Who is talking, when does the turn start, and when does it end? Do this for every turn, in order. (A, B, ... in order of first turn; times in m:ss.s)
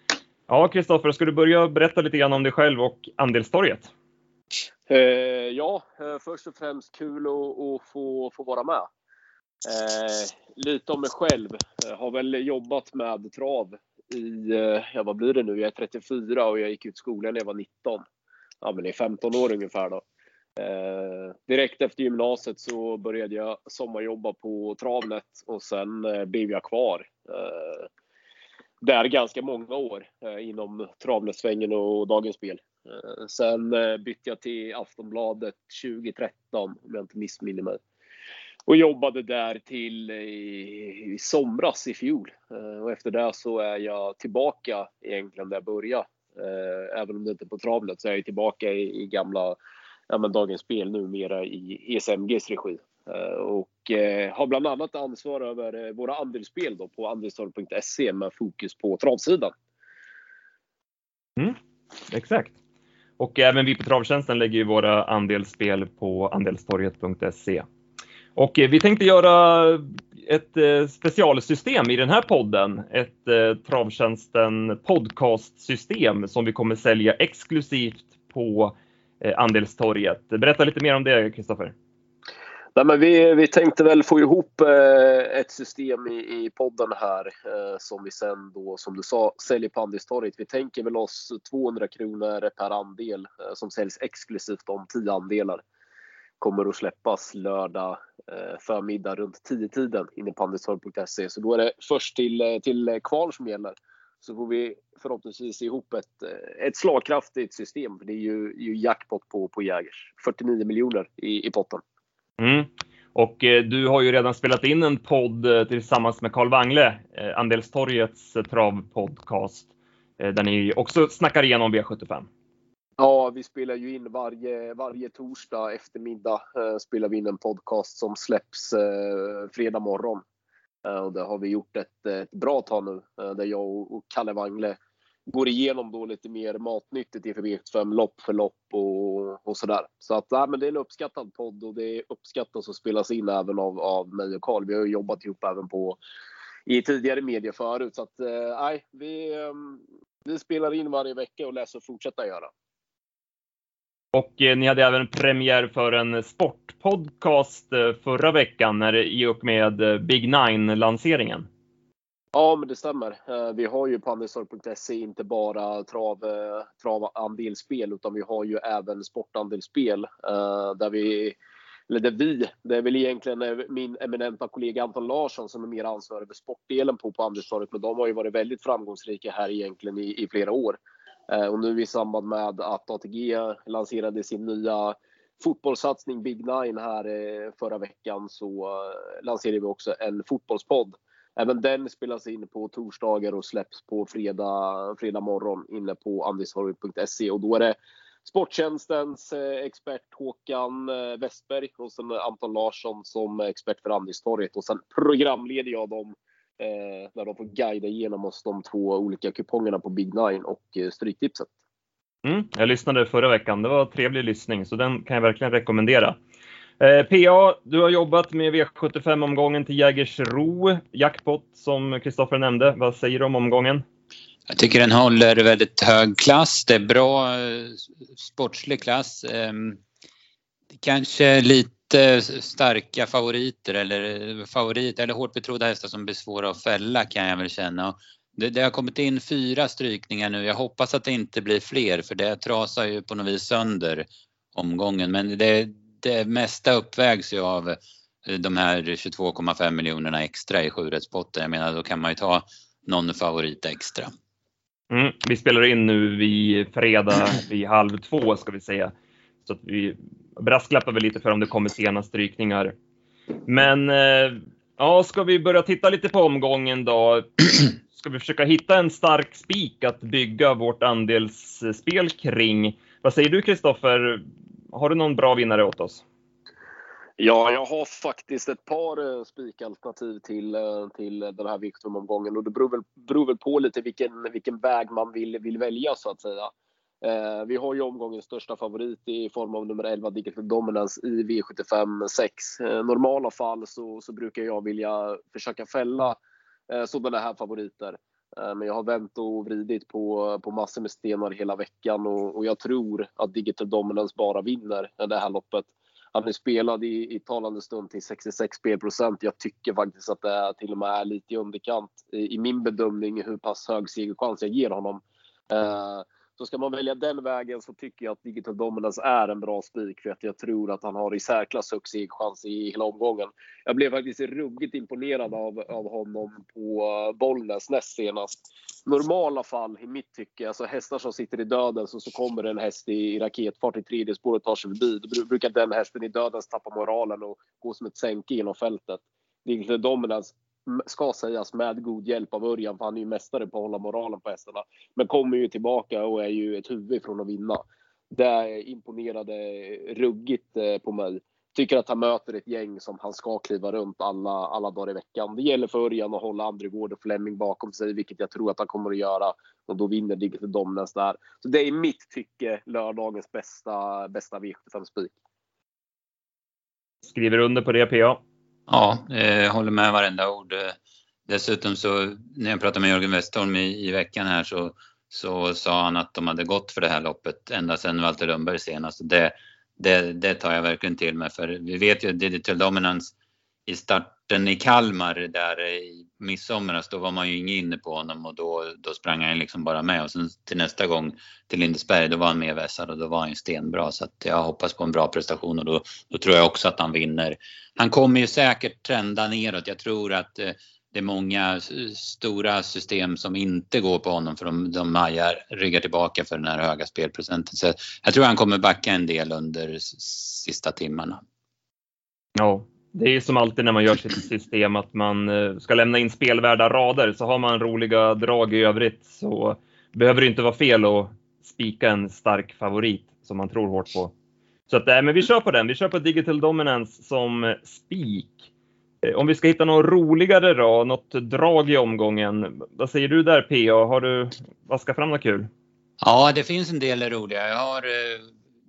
0:00.5-0:03.9 A
0:04.9-0:08.8 B
0:09.6-0:18.0 B
0:18.6-0:20.0 B
0:20.6-0:27.9 B
0:28.8-0:37.8 B
0:38.7-0:49.6 B
0:50.1-0:59.5 B
1:02.1-1:02.5 A
1:03.2-1:07.7 A
1:08.3-1:21.7 A
1:22.7-1:35.6 B
1:36.4-1:51.8 B
1:52.4-2:02.3 A
2:03.0-2:10.2 B
2:10.8-2:14.8 B
2:15.3-2:26.0 B
2:26.6-2:32.5 B
2:34.1-2:41.5 A
2:42.3-2:51.4 B
2:51.9-3:00.8 B
3:01.3-3:31.5 B
3:32.2-3:36.2 A
3:36.8-3:43.8 A
3:44.5-3:49.8 C
3:50.8-4:14.1 C
4:14.9-4:18.9 A
4:19.4-4:22.8 A
4:23.4-4:36.0 A
4:37.2-4:56.2 B
4:56.7-6:05.1 B
6:07.0-6:08.2 A
6:08.7-6:23.1 C
6:23.7-6:51.2 C
6:52.4-7:04.1 A
7:04.7-7:08.4 A
7:09.0-7:15.5 A
7:16.0-7:18.3 C